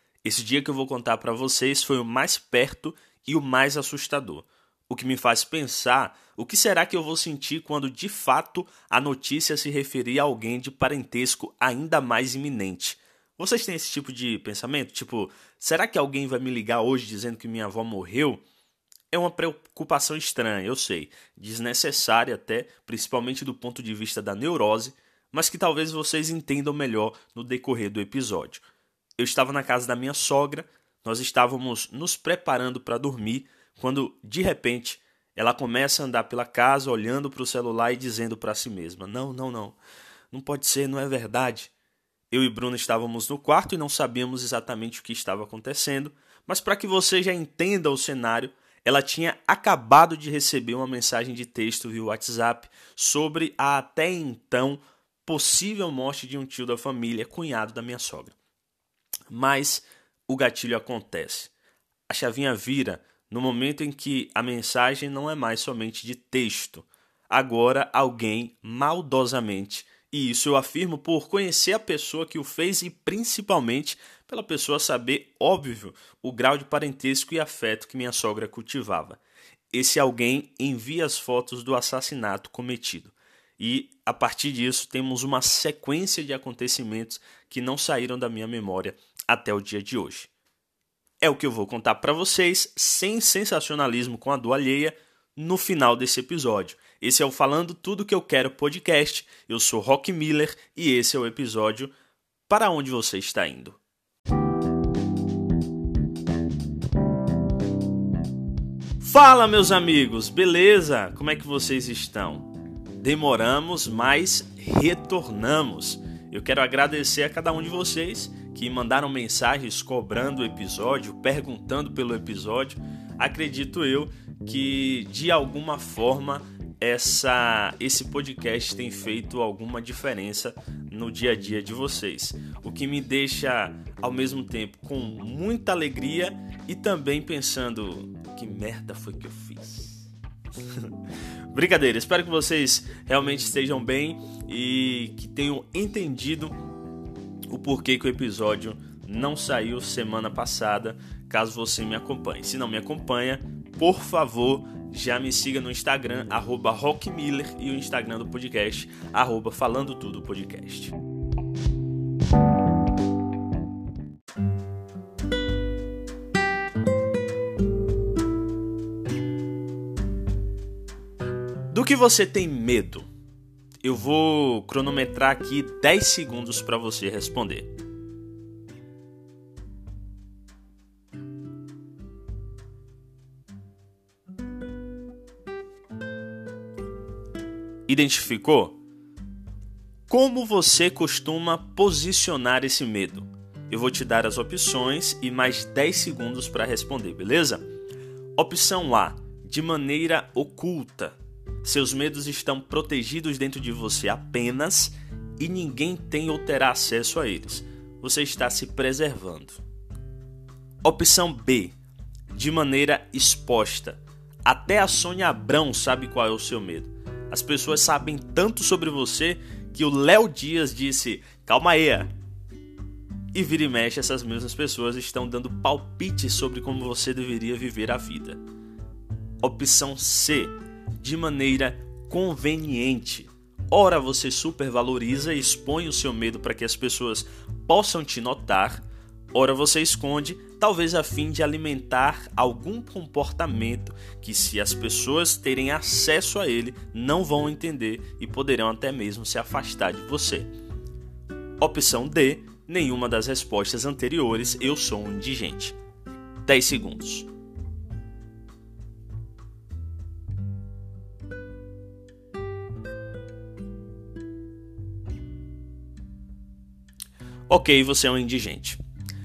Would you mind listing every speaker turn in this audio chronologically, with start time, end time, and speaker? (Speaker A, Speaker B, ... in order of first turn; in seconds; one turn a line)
Speaker A: 0.2-18.4
Speaker A: 19.1-28.6
Speaker A: 29.2-39.8
Speaker A: 40.3-41.7
Speaker A: 42.3-58.3
Speaker A: 59.3-61.5
Speaker A: 62.1-79.2
Speaker A: 79.7-90.3
Speaker A: 91.2-101.9
Speaker A: 102.5-103.8
Speaker A: 109.0-140.1
Speaker A: 140.7-140.9
Speaker A: 141.5-146.5
Speaker A: 147.5-160.9
Speaker A: 171.7-173.1
Speaker A: 173.8-177.7
Speaker A: 187.9-188.8
Speaker A: 190.1-197.6
Speaker A: 198.3-209.6
Speaker A: 210.8-211.7
Speaker A: 212.3-222.1
Speaker A: 223.3-228.4
Speaker A: 229.4-250.5
Speaker A: 251.6-255.8
Speaker A: 256.4-257.3
Speaker A: 267.5-268.8